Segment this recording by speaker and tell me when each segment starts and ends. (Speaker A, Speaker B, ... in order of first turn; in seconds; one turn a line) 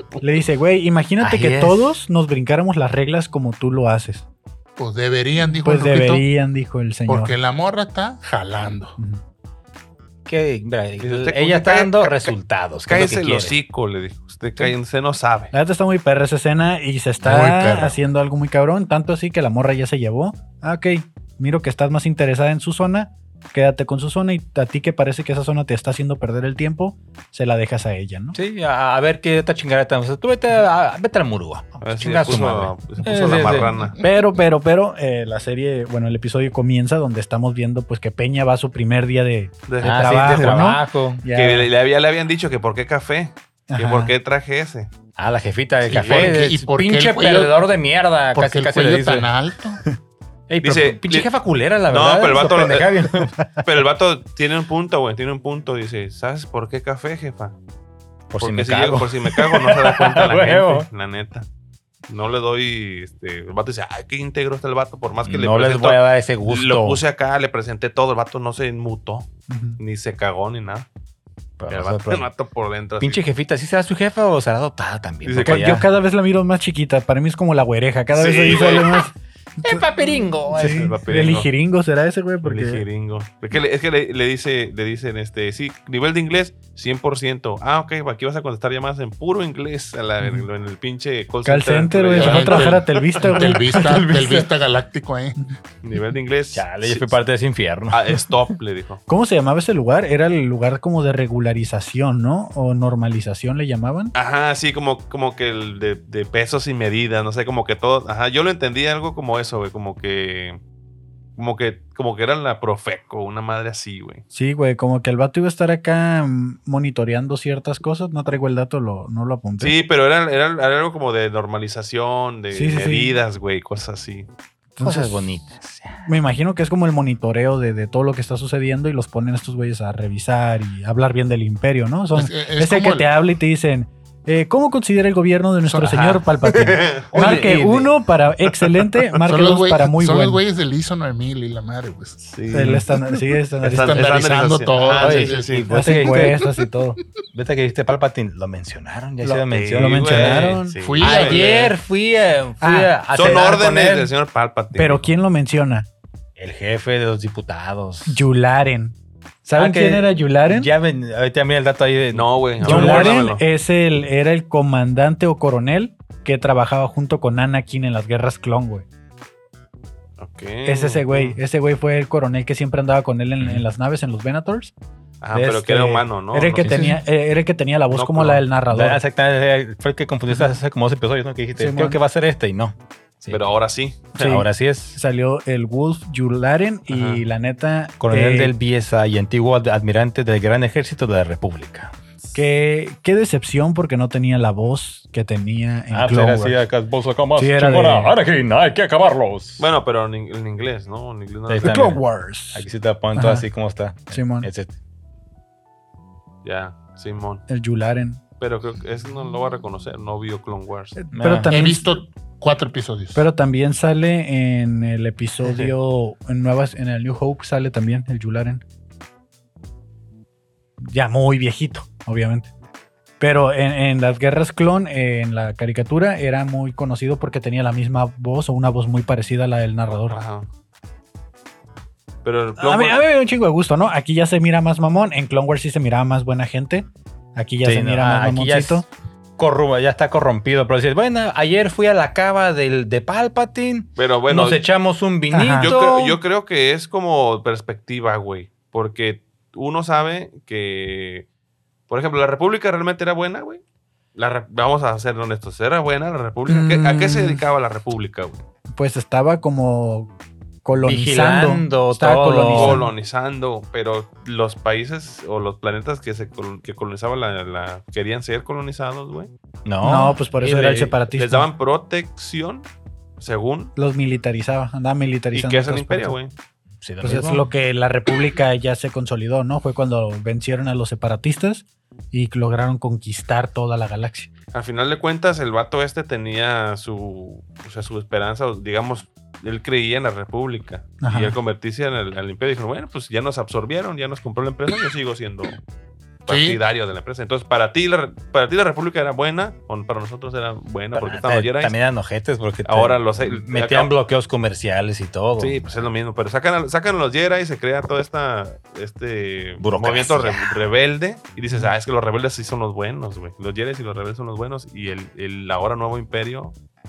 Speaker A: 0.2-4.2
Speaker B: 1.2-1.9
Speaker C: 4.8-6.2
Speaker A: 5.4-7.3
Speaker C: 7.1-9.0
Speaker B: 10.2-13.6
Speaker D: 11.0-12.3
Speaker D: 12.9-15.5
Speaker A: 15.5-28.4
Speaker C: 17.2-18.0
Speaker B: 28.3-33.9
Speaker D: 31.8-34.0
Speaker A: 34.0-41.7
Speaker D: 39.7-40.7
Speaker B: 39.8-41.2
Speaker D: 41.3-44.9
Speaker A: 43.7-44.1
Speaker B: 45.1-49.3
Speaker C: 45.8-47.6
Speaker D: 45.9-46.4
Speaker C: 48.3-49.8
Speaker B: 50.5-53.3
Speaker D: 50.6-51.3
Speaker D: 51.9-53.0
Speaker D: 53.6-57.5
Speaker B: 58.3-60.9
Speaker D: 58.4-61.5
Speaker D: 62.1-70.9
Speaker B: 65.2-67.0
Speaker A: 69.5-69.8
Speaker B: 71.6-72.3
Speaker D: 71.7-73.2
Speaker B: 73.0-75.9
Speaker D: 75.2-75.8
Speaker A: 75.5-82.8
Speaker D: 78.1-79.0
Speaker B: 78.2-79.0
Speaker B: 79.6-80.9
Speaker D: 80.6-81.5
Speaker D: 82.4-93.0
Speaker A: 90.2-90.5
Speaker A: 91.4-94.2
Speaker C: 92.1-95.5
Speaker B: 93.7-94.5
Speaker D: 95.8-97.2
Speaker B: 96.5-98.3
Speaker D: 97.9-99.0
Speaker A: 99.1-104.1
Speaker D: 104.1-110.6
Speaker D: 111.3-114.2
Speaker A: 114.3-119.7
Speaker D: 119.6-124.3
Speaker A: 122.5-123.2
Speaker A: 124.8-125.3
Speaker B: 124.8-126.1
Speaker A: 126.0-140.4
Speaker C: 132.1-133.1
Speaker D: 135.8-137.5
Speaker C: 137.1-137.4
Speaker B: 137.1-137.9
Speaker C: 139.3-142.2
Speaker D: 142.2-142.8
Speaker A: 142.5-144.1
Speaker D: 143.6-145.7
Speaker C: 143.7-145.6
Speaker B: 145.0-146.4
Speaker A: 145.7-147.0
Speaker B: 147.3-154.1
Speaker A: 149.2-150.8
Speaker D: 149.5-151.7
Speaker C: 150.8-151.7
Speaker A: 152.6-153.5
Speaker D: 153.1-155.1
Speaker A: 154.7-155.9
Speaker B: 156.4-158.2
Speaker A: 158.1-160.7
Speaker B: 159.6-163.2
Speaker D: 162.1-163.4
Speaker A: 162.6-168.8
Speaker D: 170.2-171.4
Speaker A: 170.6-174.7
Speaker B: 173.4-173.6
Speaker D: 175.2-176.8
Speaker A: 175.3-179.0
Speaker B: 176.6-177.0
Speaker D: 177.9-178.4
Speaker B: 178.7-183.5
Speaker A: 181.6-182.0
Speaker D: 183.3-184.3
Speaker A: 184.2-188.5
Speaker B: 184.2-185.0
Speaker B: 186.9-187.2
Speaker B: 188.0-191.9
Speaker A: 192.3-196.7
Speaker B: 195.9-199.7
Speaker A: 197.3-198.2
Speaker D: 199.6-201.8
Speaker B: 201.5-202.0
Speaker A: 201.6-203.4
Speaker B: 202.5-204.7
Speaker A: 204.1-204.5
Speaker D: 206.4-207.4
Speaker A: 207.5-208.2
Speaker D: 208.4-211.0
Speaker A: 210.9-212.0
Speaker B: 211.1-211.5
Speaker C: 211.5-213.2
Speaker A: 213.1-218.6
Speaker D: 215.4-215.7
Speaker A: 220.8-222.5
Speaker A: 223.2-230.2
Speaker D: 230.1-230.5
Speaker D: 232.2-233.0
Speaker A: 232.6-238.8
Speaker B: 237.6-238.8
Speaker B: 239.4-246.2
Speaker D: 243.9-244.6
Speaker A: 245.3-245.7
Speaker D: 245.6-251.2
Speaker D: 251.9-253.6
Speaker D: 254.1-258.4
Speaker A: 256.5-257.4
Speaker A: 258.7-260.1
Speaker A: 260.6-262.9
Speaker B: 260.8-262.8
Speaker D: 262.5-269.3
Speaker B: 269.6-270.9
Speaker A: 269.8-271.5
Speaker D: 271.1-272.6
Speaker D: 273.2-273.7
Speaker A: 273.8-276.2
Speaker D: 275.3-276.3
Speaker B: 276.8-277.4
Speaker A: 277.0-284.3
Speaker D: 284.5-295.6
Speaker A: 291.0-291.4
Speaker D: 296.2-301.7
Speaker C: 296.3-296.6
Speaker B: 300.9-305.9
Speaker D: 302.6-303.9
Speaker D: 305.4-316.5
Speaker B: 309.6-310.6